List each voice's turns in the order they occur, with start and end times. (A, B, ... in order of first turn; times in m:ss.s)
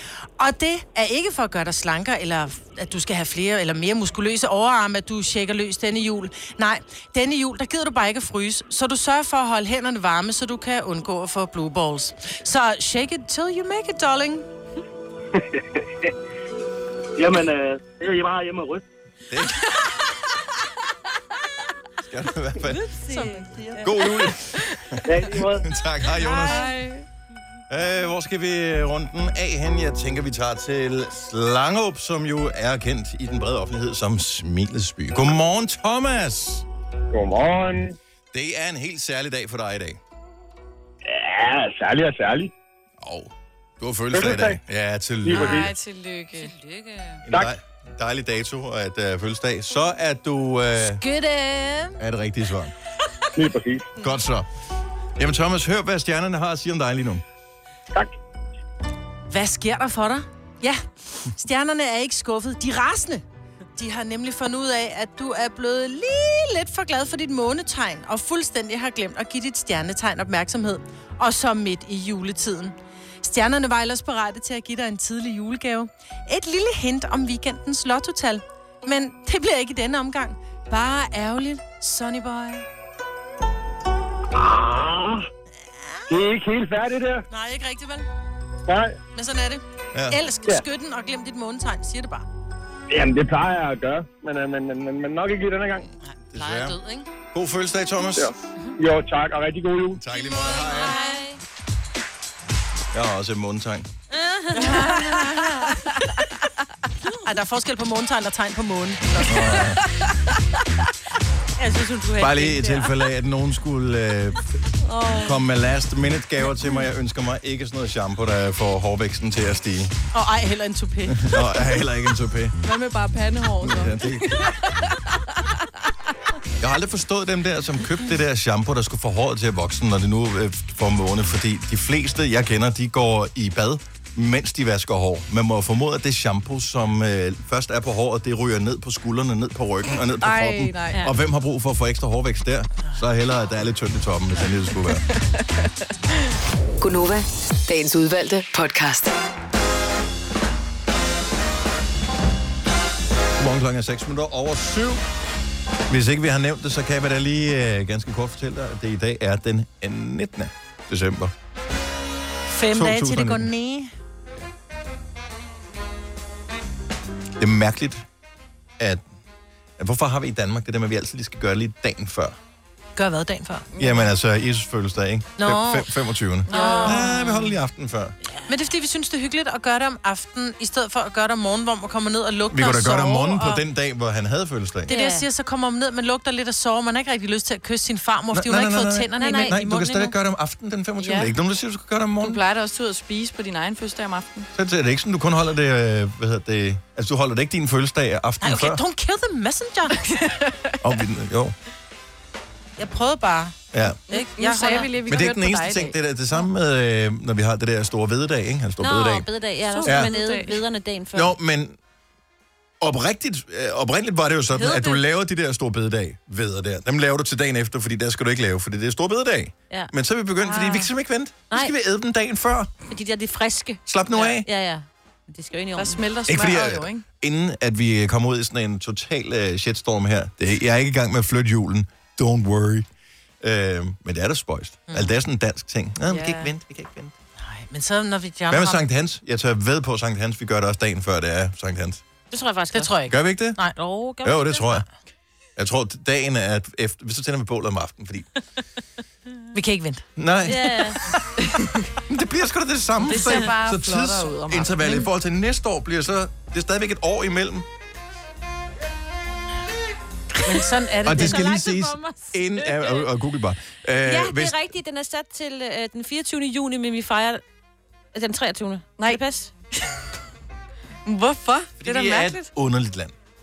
0:00.4-0:14.5 A
0:17.2-0:18.8 B
0:19.3-0:19.7 C
0:22.0-0:22.8 C
0:22.8-0:23.5 D
0:23.1-0:23.7 A
0:23.8-0:26.7 C
0:25.1-0:25.6 B
0:26.2-0:27.0 E
0:27.7-0:36.6 C
0:37.1-0:38.0 F
0:38.3-0:40.0 C
0:41.1-0:42.5 F
0:43.0-0:45.6 C
0:44.1-0:44.6 F
0:45.2-0:45.7 F
0:45.3-0:46.6 E
0:46.4-0:47.2 D
0:47.3-0:51.0 C
0:51.0-0:52.0 A
0:52.0-0:52.7 C
0:53.4-0:53.9 F
0:54.0-0:54.5 C
0:55.2-0:57.2 C
0:59.3-1:03.2 A
1:03.8-1:22.7 A
1:24.3-1:25.3 F
1:26.1-1:27.3 F
1:27.3-1:28.1 A
1:28.7-1:29.0 F
1:29.1-1:32.3 A
1:29.9-1:30.2 C
1:32.9-1:35.9 F
1:36.1-1:37.1 A
1:36.3-1:36.8 C
1:37.3-1:38.3 C
1:38.2-1:40.0 F
1:39.9-1:41.0 C
1:40.3-1:41.4 D
1:40.3-1:41.2 A
1:42.9-1:43.9 C
1:44.2-1:45.4 D
1:44.6-1:45.8 A
1:44.8-1:45.1 E
1:47.2-1:49.7 A
1:49.3-1:49.8 C
1:51.6-1:52.9 D
1:52.2-1:54.4 C
1:55.2-1:59.9 C
2:00.1-2:01.4 A
2:01.1-2:02.6 C
2:02.6-2:05.2 E
2:03.6-2:04.4 C
2:06.6-2:25.0 C
2:20.2-2:21.1 E
2:25.1-2:25.9 E
2:26.8-2:29.1 G
2:33.4-2:35.0 C
2:35.9-2:41.3 C
2:42.5-2:43.9 A
2:42.7-2:43.5 C
2:47.4-2:48.0 C
2:48.8-2:49.0 C
2:49.8-2:52.4 C
2:53.0-2:53.7 A
2:53.8-2:54.1 E
2:53.8-2:58.2 C
2:55.4-2:55.9 A
2:56.5-2:57.1 A
2:56.5-2:57.1 E
2:58.5-3:03.6 A
3:02.5-3:04.9 C
3:04.9-3:05.2 D
3:04.9-3:10.1 A
3:08.3-3:12.4 C
3:09.2-3:09.6 D
3:11.0-3:11.3 E
3:12.2-3:14.5 E
3:14.6-3:18.8 C
3:18.4-3:20.0 A
3:20.1-3:20.7 E
3:20.8-3:21.6 C
3:22.8-3:24.9 A
3:23.7-3:24.0 C
3:24.1-3:26.0 E
3:25.1-3:29.3 C
3:28.8-3:31.4 D
3:29.7-3:30.6 E
3:29.8-3:30.1 C
3:31.1-3:31.8 C
3:32.8-3:42.7 C
3:34.6-3:35.0 D
3:42.9-3:46.0 D
3:43.9-3:44.5 C
3:45.8-3:47.0 E
3:46.3-3:52.9 C
3:53.4-3:57.2 C
3:54.9-3:55.1 A
3:56.1-3:56.5 E
3:57.4-3:58.8 A
3:58.5-4:02.0 C
4:02.3-4:03.0 D
4:02.7-4:03.8 A
4:03.1-4:03.6 C
4:03.8-4:04.8 D
4:04.2-4:04.8 C
4:05.6-4:08.3 C
4:09.5-4:10.1 A
4:10.2-4:10.8 C
4:10.5-4:11.0 D
4:12.1-4:17.7 C
4:13.0-4:15.0 E
4:20.4-4:21.4 A
4:20.9-4:23.1 D
4:21.0-4:24.6 C
4:24.0-4:27.4 D
4:28.1-4:29.5 D
4:31.1-4:32.5 E
4:31.8-4:33.2 C